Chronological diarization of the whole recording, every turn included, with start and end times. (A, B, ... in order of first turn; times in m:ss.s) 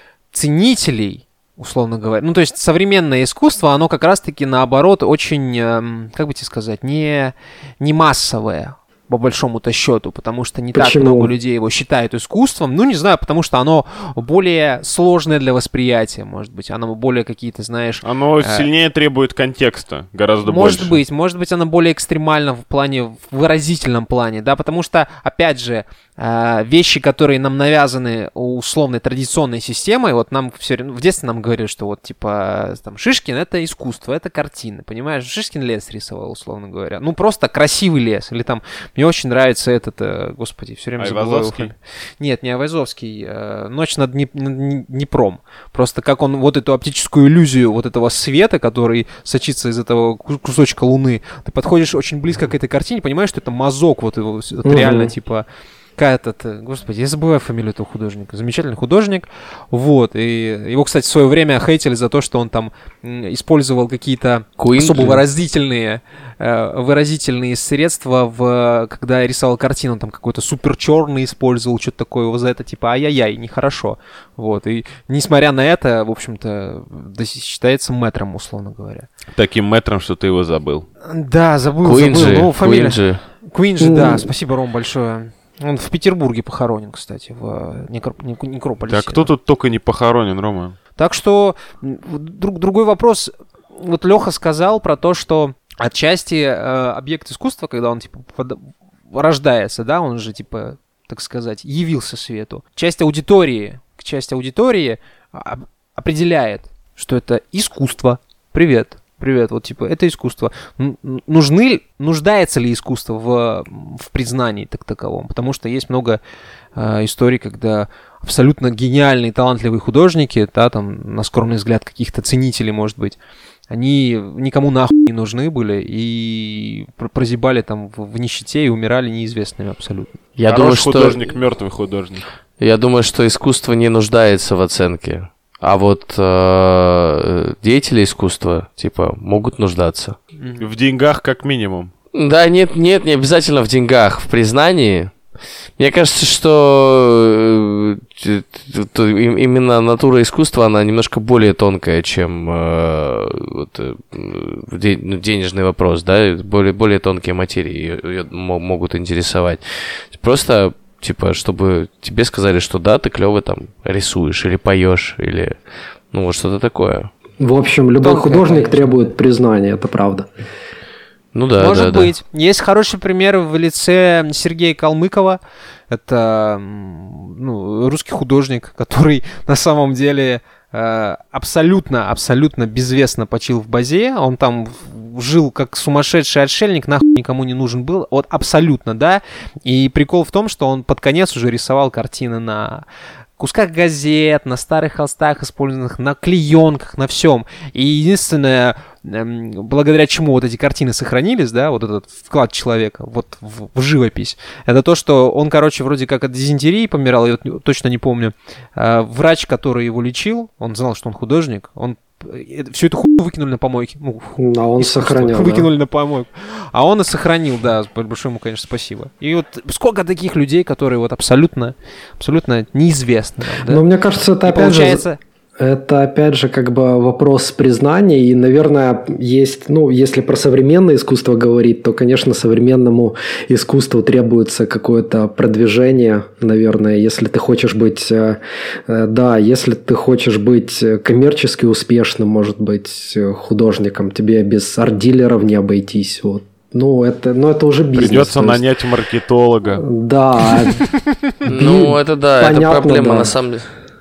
0:00.3-0:18.7 A
0:10.7-0:11.3 B
0:18.0-0:21.0 C
0:20.4-0:55.4 A
0:41.0-0:41.7 C
0:54.6-0:55.1 B
0:56.0-1:19.1 A
1:04.6-1:05.2 D
1:19.4-1:20.9 C
1:21.1-1:29.3 A
1:21.8-1:23.2 D
1:23.8-1:24.3 B
1:28.9-1:30.8 C
1:31.0-1:56.2 A
1:56.8-2:03.2 A
2:03.7-2:10.1 A
2:10.4-2:11.2 D
2:10.5-2:12.3 C
2:12.6-2:20.2 D
2:20.4-2:20.6 A
2:20.6-2:21.9 C
2:22.1-2:25.1 D
2:25.8-2:45.6 D
2:46.1-2:47.1 D
2:47.4-2:50.3 B
2:48.0-2:49.1 A
2:51.3-2:52.1 D
2:51.6-2:55.4 A
2:55.9-3:12.8 A
3:13.4-3:43.8 A
3:34.4-3:35.7 B
3:43.6-3:45.0 B
3:44.5-3:45.2 A
3:45.6-4:08.6 B
4:07.9-4:09.8 C
4:09.7-4:10.8 B
4:11.4-4:13.3 B
4:11.5-4:13.7 D